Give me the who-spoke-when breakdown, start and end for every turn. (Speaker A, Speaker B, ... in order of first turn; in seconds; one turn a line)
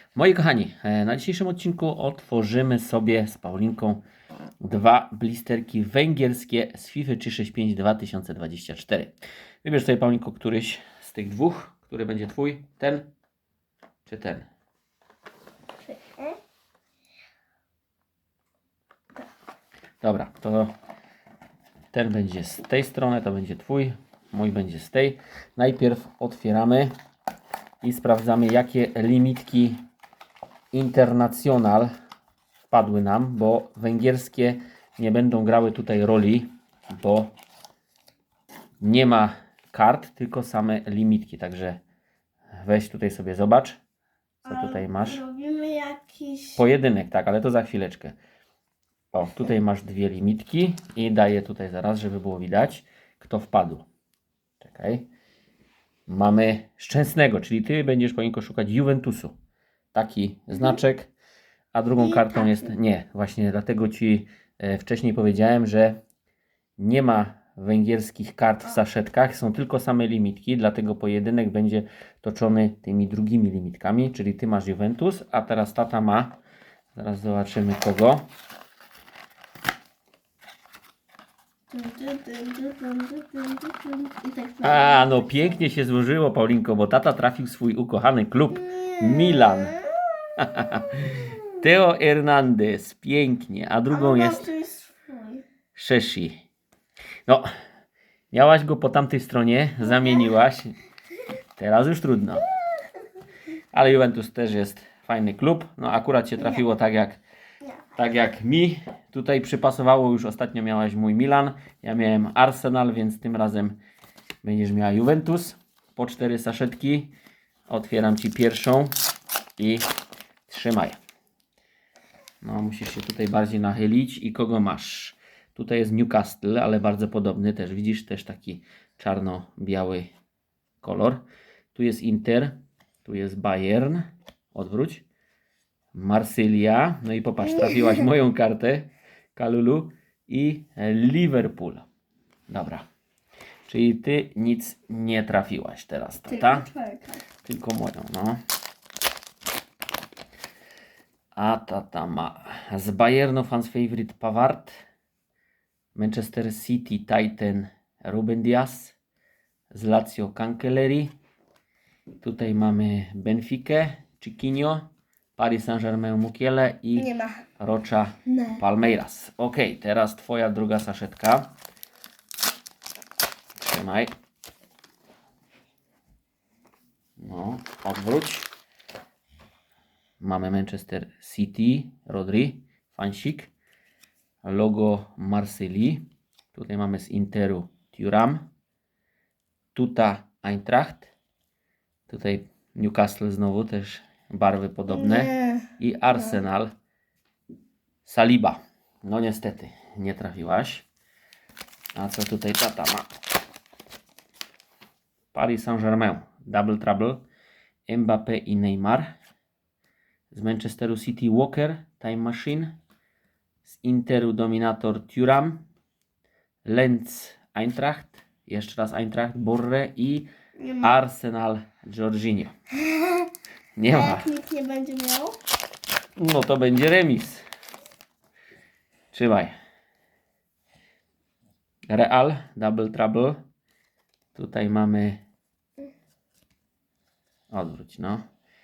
Speaker A: 0.1-4.0
Speaker A: 4.6-13.1
Speaker A: 14.1-14.5
Speaker B: 15.9-16.4
Speaker A: 20.0-20.7
Speaker A: 21.9-26.9
Speaker A: 27.8-29.8
Speaker A: 30.7-31.9
Speaker A: 32.7-37.3
Speaker A: 38.8-41.8
Speaker A: 42.6-43.8
Speaker B: 44.4-46.6
Speaker A: 44.5-45.2
Speaker A: 46.6-48.1
Speaker A: 49.1-53.9
Speaker A: 54.6-55.1
Speaker A: 56.1-59.4
Speaker A: 59.9-61.1
Speaker B: 60.5-60.8
Speaker A: 61.7-66.0
Speaker B: 62.0-62.7
Speaker A: 66.8-76.4
Speaker A: 77.0-78.2
Speaker B: 81.7-85.7
Speaker A: 84.6-89.8
Speaker B: 88.5-90.4
Speaker A: 90.4-94.5
Speaker B: 93.9-95.4
Speaker A: 95.8-96.4
Speaker A: 98.3-100.7
Speaker A: 101.6-102.5
Speaker A: 103.7-107.2
Speaker A: 108.0-113.8
Speaker A: 114.4-117.1
Speaker A: 117.7-119.0
Speaker A: 119.6-119.9
Speaker A: 120.5-121.0
Speaker A: 122.4-130.1
Speaker A: 130.8-131.2
Speaker A: 131.7-135.0
Speaker A: 135.9-141.9
Speaker B: 137.4-138.1
Speaker A: 142.5-142.8
Speaker A: 143.7-146.7
Speaker B: 146.3-147.2
Speaker A: 147.4-148.4
Speaker A: 151.4-154.7
Speaker A: 155.9-158.9
Speaker A: 159.7-161.1
Speaker A: 162.2-171.5
Speaker B: 166.9-167.4
Speaker B: 168.3-168.6
Speaker A: 173.6-174.1
Speaker A: 177.2-178.5
Speaker A: 180.2-183.5
Speaker A: 184.4-188.5
Speaker A: 189.8-191.1
Speaker A: 192.1-196.7
Speaker B: 194.9-196.4
Speaker A: 198.0-200.9
Speaker A: 202.0-203.1
Speaker A: 205.3-207.2
Speaker A: 207.9-209.2
Speaker A: 210.3-212.8
Speaker A: 213.7-215.7
Speaker A: 216.7-220.3
Speaker B: 220.6-220.9
Speaker A: 220.8-222.5
Speaker B: 222.8-223.3
Speaker A: 223.8-224.3
Speaker B: 223.9-225.4
Speaker A: 226.2-227.4
Speaker A: 229.1-229.5
Speaker A: 231.9-233.4
Speaker A: 234.3-235.2
Speaker A: 237.5-238.2